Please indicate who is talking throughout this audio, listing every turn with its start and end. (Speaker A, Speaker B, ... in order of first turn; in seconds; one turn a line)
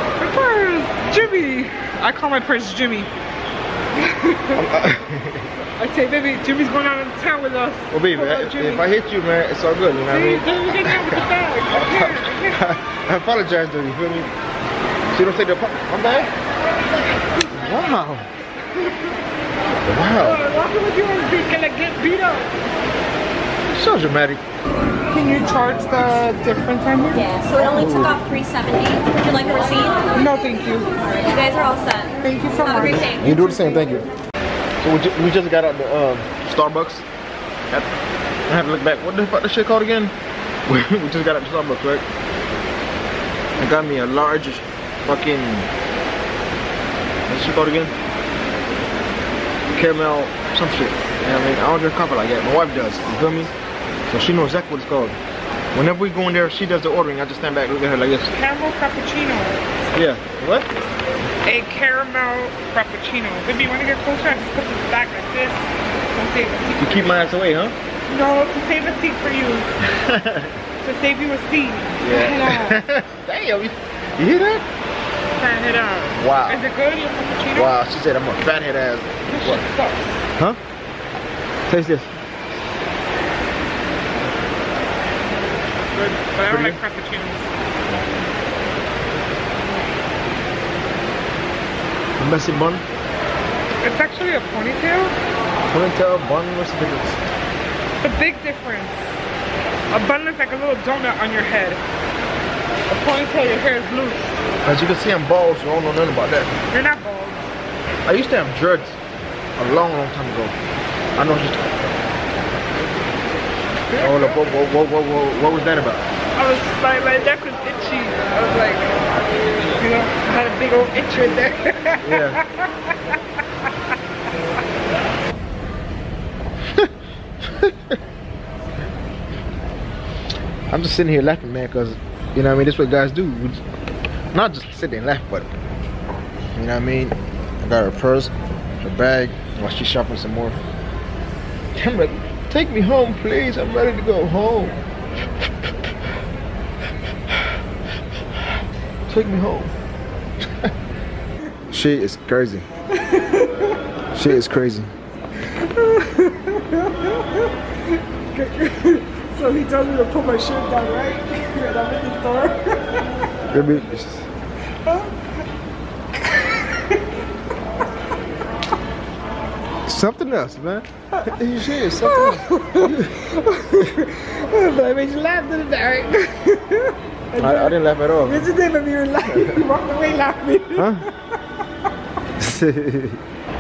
Speaker A: 0.2-3.1
Speaker A: 3.9-4.7
Speaker B: 4.5-5.5
Speaker A: 5.6-8.9
Speaker B: 7.9-11.2
Speaker A: 10.1-12.6
Speaker B: 11.7-14.3
Speaker B: 15.1-16.3
Speaker B: 17.5-18.3
Speaker B: 19.9-20.4
Speaker A: 20.2-22.6
Speaker B: 23.7-24.4
Speaker A: 25.1-27.4
Speaker C: 27.3-30.1
Speaker B: 27.6-28.3
Speaker A: 30.1-30.9
Speaker C: 31.2-32.1
Speaker A: 32.2-33.1
Speaker B: 32.8-34.1
Speaker B: 34.8-37.1
Speaker B: 38.5-40.1
Speaker B: 40.7-42.0
Speaker B: 43.6-45.7
Speaker B: 47.3-48.0
Speaker B: 49.8-53.5
Speaker B: 54.1-55.2
Speaker B: 55.7-58.3
Speaker A: 58.3-59.8
Speaker B: 59.9-60.7
Speaker A: 61.4-67.1
Speaker B: 66.8-67.8
Speaker A: 68.1-69.7
Speaker B: 69.8-70.5
Speaker A: 70.8-72.8
Speaker B: 72.0-74.7
Speaker A: 75.4-77.8
Speaker B: 76.2-76.6
Speaker B: 77.5-79.7
Speaker A: 79.3-80.3
Speaker B: 81.7-82.1
Speaker A: 86.0-87.5
Speaker B: 86.5-86.8
Speaker B: 92.2-92.8
Speaker A: 93.8-95.2
Speaker B: 95.7-97.2
Speaker A: 98.0-99.2
Speaker A: 99.9-101.8
Speaker A: 102.9-104.4
Speaker B: 104.7-106.6
Speaker A: 106.7-107.5
Speaker B: 108.1-109.0
Speaker B: 109.6-110.6
Speaker B: 111.2-111.6
Speaker A: 113.9-114.4
Speaker B: 114.0-116.0
Speaker A: 116.3-119.0
Speaker A: 119.8-123.1
Speaker B: 122.0-122.4
Speaker B: 127.5-128.0
Speaker B: 130.7-133.6
Speaker B: 134.3-135.5
Speaker B: 136.6-140.6
Speaker B: 141.8-144.8
Speaker B: 149.1-149.7
Speaker B: 151.7-152.7
Speaker A: 152.9-153.9
Speaker B: 154.1-154.9
Speaker A: 155.5-163.1
Speaker B: 163.5-164.3
Speaker A: 164.8-165.3
Speaker A: 166.2-167.2
Speaker B: 169.9-173.1
Speaker A: 171.1-181.1
Speaker B: 177.4-178.5
Speaker B: 179.3-179.6
Speaker B: 180.8-181.1
Speaker B: 182.4-183.2